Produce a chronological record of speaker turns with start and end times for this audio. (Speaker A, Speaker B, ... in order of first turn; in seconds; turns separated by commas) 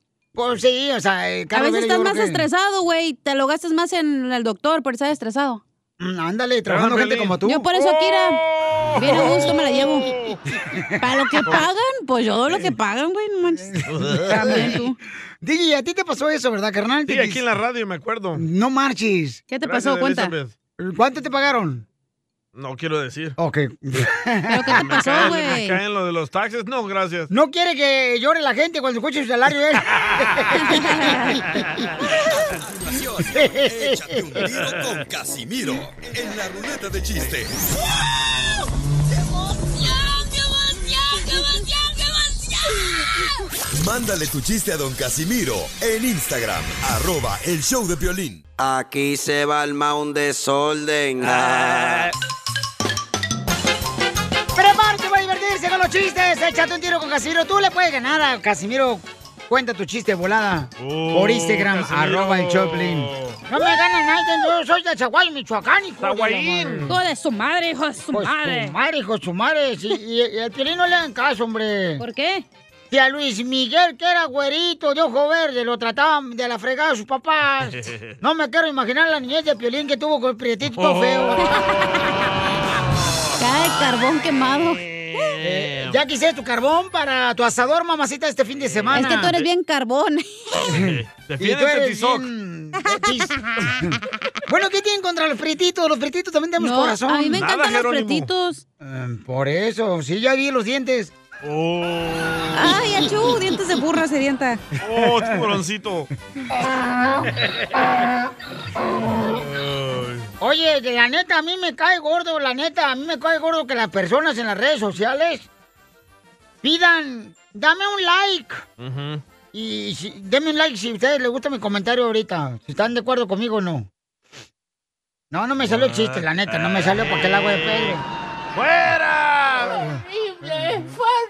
Speaker A: 0.3-2.5, Speaker B: 1.5-5.6, Speaker A: 6.0-7.7, Speaker C: 6.7-10.4, Speaker B: 7.5-8.4, Speaker B: 9.0-10.1, Speaker B: 11.0-13.7, Speaker A: 13.6-14.9, Speaker C: 13.9-14.6, Speaker B: 14.3-15.0, Speaker A: 15.4-17.4, Speaker C: 17.1-18.4, Speaker A: 18.4-19.4, Speaker B: 19.5-20.3, Speaker C: 19.6-20.5, Speaker A: 20.8-21.9, Speaker C: 22.6-23.4, Speaker A: 23.4-25.3, Speaker B: 24.5-25.8, Speaker C: 24.8-27.3, Speaker A: 27.3-31.6, Speaker B: 30.6-31.3, Speaker D: 32.3-37.6, Speaker A: 33.3-34.2, Speaker D: 43.7-48.4, Speaker E: 48.6-52.0, Speaker C: 51.2-52.1, Speaker A: 54.6-66.9, Speaker C: 60.8-63.4, Speaker C: 66.0-67.0, Speaker B: 66.9-68.8, Speaker A: 68.1-72.0, Speaker B: 72.0-72.4, Speaker A: 72.9-81.4, Speaker C: 77.7-78.1, Speaker C: 80.7-81.4, Speaker B: 83.4-84.8, Speaker C: 85.1-86.0, Speaker A: 85.4-89.4, Speaker C: 88.6-89.5, Speaker B: 88.9-90.6, Speaker A: 90.7-94.0, Speaker C: 90.7-92.3, Speaker A: 94.5-97.4, Speaker B: 96.6-98.6, Speaker C: 97.3-98.3, Speaker A: 98.8-101.1, Speaker C: 101.4-102.8, Speaker B: 102.5-104.6, Speaker C: 104.8-106.1, Speaker C: 109.4-110.3, Speaker A: 110.4-115.5, Speaker A: 116.6-118.7, Speaker C: 118.8-119.2, Speaker A: 119.5-123.9, Speaker A: 125.3-128.0, Speaker C: 125.6-128.0, Speaker C: 128.6-129.9, Speaker A: 130.5-130.8